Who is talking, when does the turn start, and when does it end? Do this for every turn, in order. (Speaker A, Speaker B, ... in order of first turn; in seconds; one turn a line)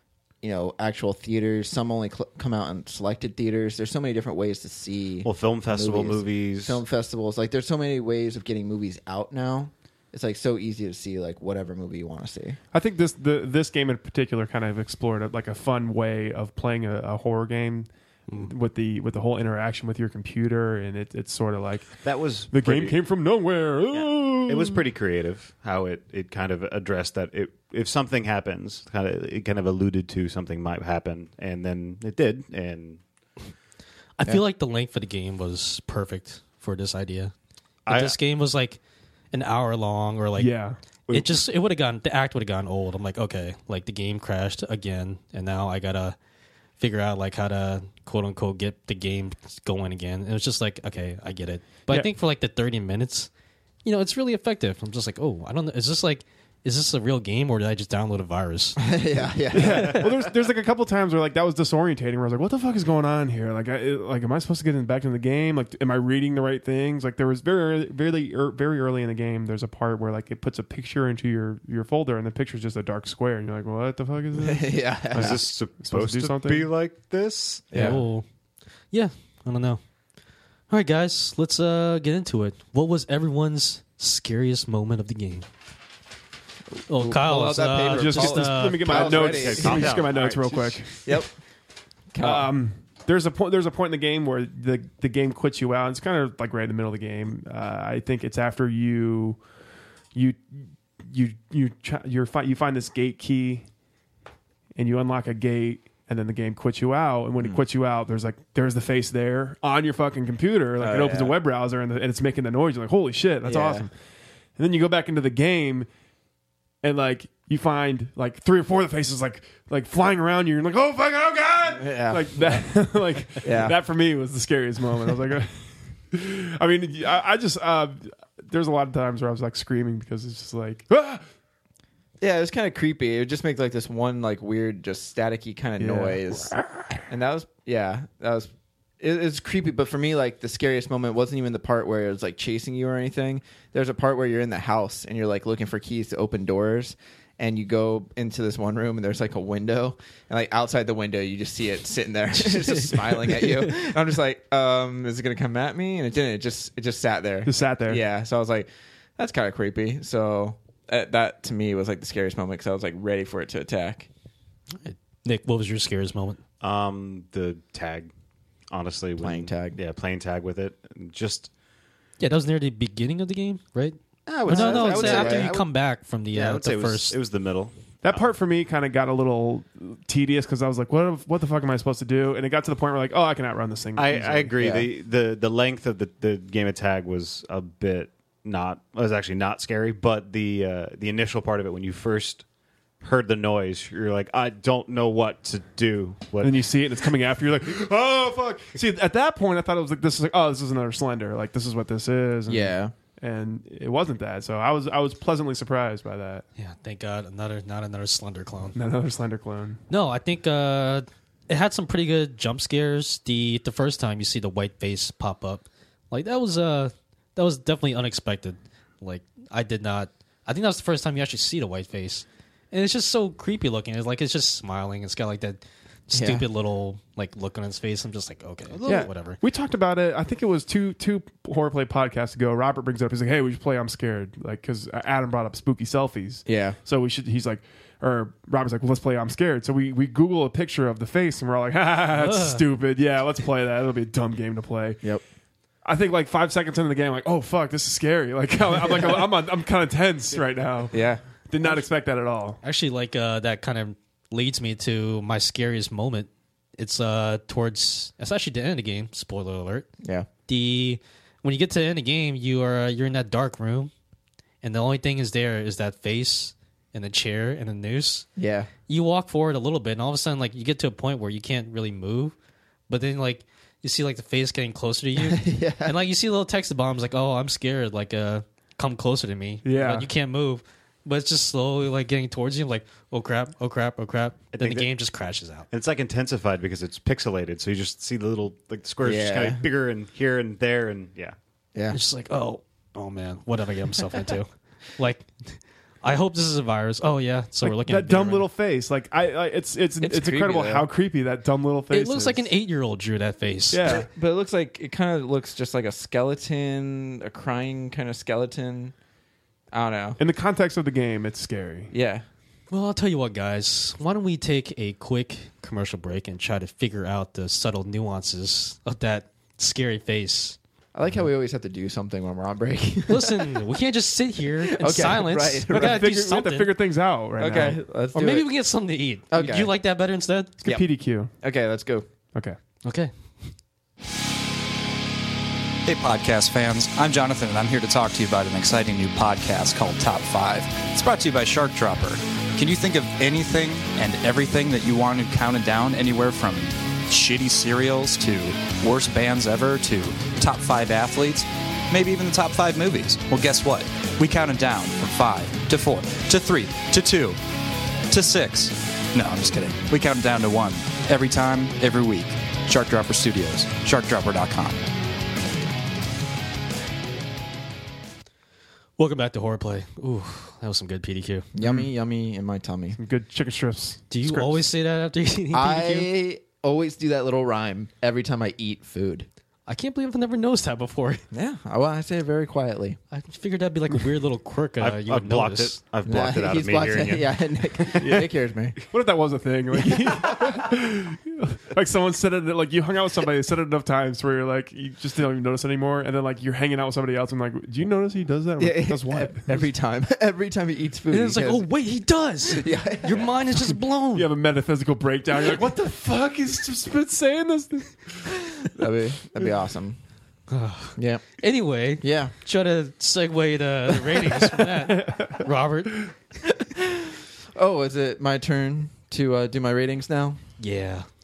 Speaker A: 0.4-12.6
Speaker B: 5.2-6.8
Speaker C: 12.7-24.8
Speaker D: 18.3-18.5
Speaker B: 22.0-23.0
Speaker B: 23.9-33.0
Speaker D: 34.2-37.3
Speaker B: 37.9-38.2
Speaker D: 37.9-38.8
Speaker D: 39.3-40.5
Speaker C: 40.4-40.8
Speaker D: 41.1-46.2
Speaker D: 46.8-53.3
Speaker D: 53.9-58.8
Speaker A: 58.8-60.3
Speaker C: 59.5-76.7
Speaker D: 59.6-60.0
Speaker A: 74.3-75.4
Speaker B: 75.2-77.9
Speaker A: 77.7-78.0
Speaker D: 77.8-78.2
Speaker D: 78.9-79.8
Speaker D: 80.7-85.5
Speaker D: 86.9-89.3
Speaker A: 86.9-90.0
Speaker C: 87.9-91.1
Speaker B: 89.1-91.0
Speaker A: 91.0-91.3
Speaker A: 92.1-92.5
Speaker C: 92.2-99.4
Speaker C: 100.1-103.7
Speaker C: 104.8-113.9
Speaker A: 110.8-111.4
Speaker A: 113.4-113.9
Speaker C: 114.6-115.9
Speaker C: 116.8-131.2
Speaker A: 121.8-122.7
Speaker A: 123.4-123.8
Speaker A: 132.2-136.6
Speaker C: 135.8-137.0
Speaker A: 137.1-164.1
Speaker D: 152.4-153.9
Speaker C: 157.5-158.0
Speaker D: 164.8-166.4
Speaker B: 166.6-168.1
Speaker B: 168.7-171.5
Speaker A: 169.2-169.8
Speaker D: 172.2-177.2
Speaker B: 174.3-175.7
Speaker A: 174.5-175.6
Speaker B: 176.3-178.3
Speaker C: 178.0-184.5
Speaker B: 184.0-192.4
Speaker A: 184.6-184.9
Speaker B: 193.0-196.7
Speaker C: 196.4-206.4
Speaker B: 198.4-198.7
Speaker A: 202.5-202.9
Speaker D: 206.6-208.8
Speaker C: 208.8-209.8
Speaker D: 209.9-229.4
Speaker A: 226.1-226.4
Speaker C: 228.8-245.0
Speaker A: 236.5-236.8
Speaker D: 242.2-242.6
Speaker C: 245.8-252.6
Speaker A: 250.9-251.8
Speaker D: 252.6-259.9
Speaker A: 260.0-260.3
Speaker D: 260.5-263.9
Speaker D: 264.6-268.3
Speaker A: 268.4-268.7
Speaker D: 268.9-272.3
Speaker D: 272.9-285.7
Speaker A: 275.2-275.9
Speaker C: 279.6-280.1
Speaker B: 284.5-284.9
Speaker B: 285.7-291.4
Speaker A: 289.0-289.6
Speaker D: 291.9-298.5
Speaker C: 297.6-302.5
Speaker A: 300.0-300.9
Speaker D: 301.9-304.0
Speaker C: 303.7-304.1
Speaker A: 303.9-308.9
Speaker A: 309.7-310.2
Speaker C: 310.2-311.9
Speaker A: 311.9-312.2
Speaker D: 312.7-320.6
Speaker A: 320.9-323.6
Speaker D: 323.1-326.8
Speaker A: 324.6-326.0
Speaker C: 325.7-327.8
Speaker A: 327.4-328.5
Speaker D: 328.1-330.5
Speaker A: 329.3-329.7
Speaker C: 330.6-331.3
Speaker A: 331.4-332.1
Speaker D: 332.9-333.1
Speaker E: 335.9-357.4
Speaker E: 358.1-364.9
Speaker D: 369.0-371.5
Speaker A: 371.5-373.0
Speaker C: 371.6-371.9
Speaker C: 373.0-374.7
Speaker D: 374.1-376.1
Speaker A: 375.5-379.3
Speaker D: 379.7-381.2
Speaker A: 381.3-383.0
Speaker D: 383.1-385.8
Speaker B: 384.8-388.2
Speaker A: 386.1-388.8
Speaker C: 388.0-388.3
Speaker C: 388.9-399.6
Speaker A: 389.8-390.7
Speaker A: 398.6-401.7
Speaker D: 401.1-404.3
Speaker A: 402.4-403.4
Speaker C: 404.1-408.4
Speaker A: 408.6-410.0
Speaker D: 410.5-416.1
Speaker A: 411.0-411.2
Speaker A: 412.0-412.3
Speaker C: 414.8-415.4
Speaker A: 416.5-420.4
Speaker D: 420.6-421.1